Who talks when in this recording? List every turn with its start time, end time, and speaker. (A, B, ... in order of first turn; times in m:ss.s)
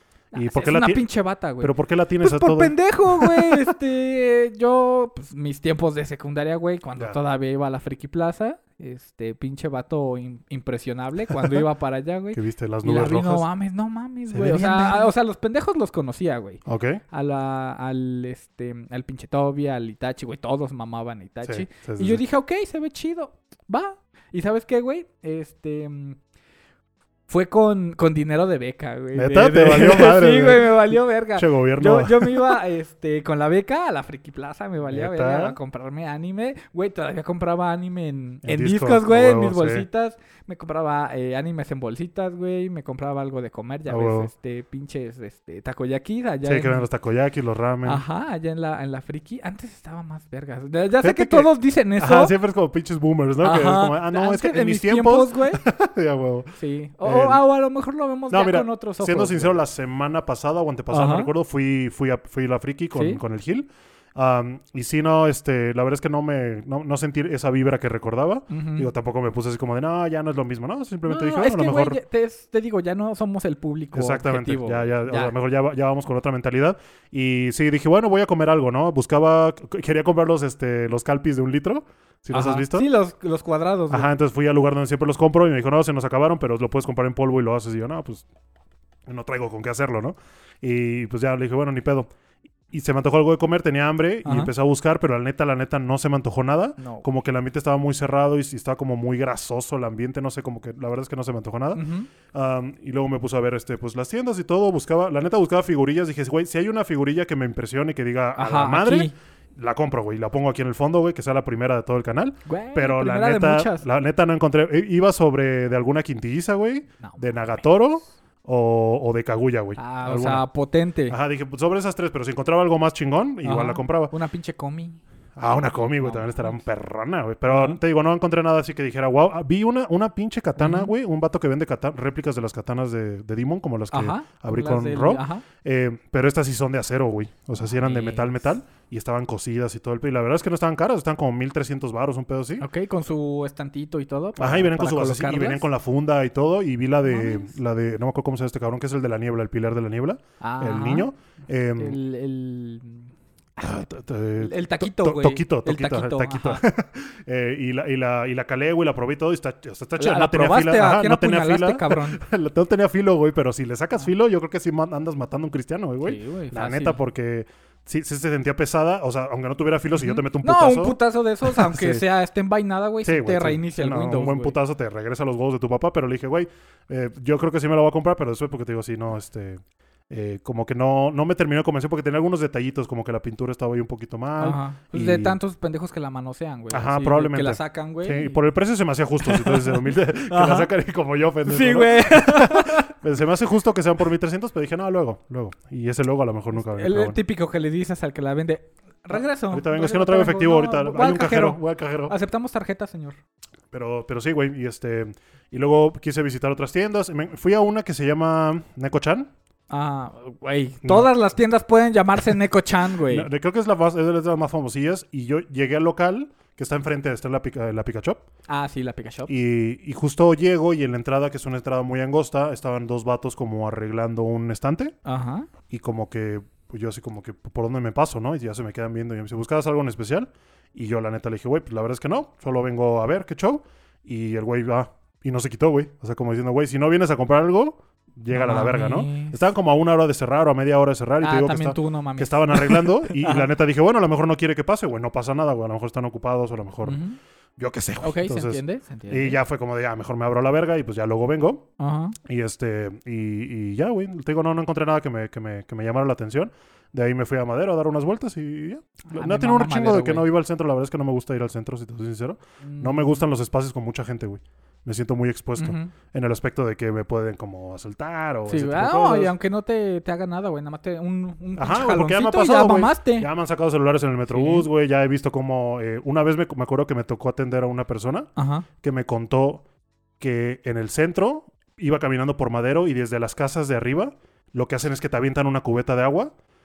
0:00.3-0:01.0 A
0:00.3-0:26.2 B
0:01.6-0:03.7 A
0:11.4-0:11.6 A
0:12.3-0:13.5 A
0:14.3-0:15.1 A
0:16.6-0:17.0 A
0:21.4-0:22.2 A
0:27.3-0:46.9 B
0:29.1-0:32.6 A
0:34.9-0:35.6 A
0:38.4-0:39.8 A
0:43.9-0:44.3 A
0:46.4-0:48.0 A
0:47.8-0:52.3 B
0:51.0-0:57.4 A
0:53.4-0:55.6 B
0:56.6-0:59.6 B
0:58.3-1:12.0 A
1:00.9-1:01.3 B
1:02.9-1:03.2 B
1:08.5-1:08.9 B
1:11.0-1:15.3 B
1:13.9-1:22.9 A
1:22.3-1:24.1 B
1:23.9-1:28.2 A
1:29.1-1:32.1 A
1:32.7-2:00.4 A
1:34.2-1:34.5 B
1:36.8-1:37.0 B
1:41.7-1:42.1 B
1:48.4-1:49.1 B
1:52.4-1:53.8 B
1:57.0-1:57.6 B
1:59.8-2:01.2 B
2:01.1-2:04.1 A
2:03.4-2:05.0 B
2:05.4-2:22.6 A
2:05.5-2:06.6 B
2:07.5-2:07.8 B
2:10.6-2:10.9 B
2:13.9-2:15.4 B
2:17.6-2:18.4 B
2:22.6-2:25.7 B
2:24.4-2:32.0 A
2:27.0-2:27.5 B
2:30.4-2:31.1 B
2:31.8-2:33.1 B
2:33.6-2:52.0 A
2:34.4-2:36.6 B
2:40.0-2:42.2 B
2:46.0-2:47.0 B
2:50.0-2:54.6 B
2:53.0-3:05.4 A
3:04.4-3:08.4 B
3:06.7-3:17.2 A
3:09.2-3:10.7 B
3:11.4-3:12.9 B
3:16.5-3:23.2 B
3:19.1-3:22.2 A
3:23.7-3:29.3 A
3:29.7-3:33.3 B
3:30.8-3:31.1 A
3:33.0-3:38.2 A
3:38.5-3:39.3 B
3:39.3-3:45.0 A
3:45.0-3:45.5 B
3:45.7-4:07.0 A
3:58.3-3:59.4 B
4:01.2-4:03.5 B
4:06.8-4:07.2 B
4:07.6-4:11.6 A
4:08.0-4:09.4 B
4:11.8-4:12.1 B
4:12.2-4:29.3 A
4:19.1-4:20.3 B
4:22.6-4:23.2 B
4:25.6-4:25.9 B
4:28.5-4:33.3 B
4:31.6-4:38.3 A
4:34.3-4:34.7 B
4:38.4-4:38.6 B
4:38.8-4:39.6 A
4:40.2-4:46.3 A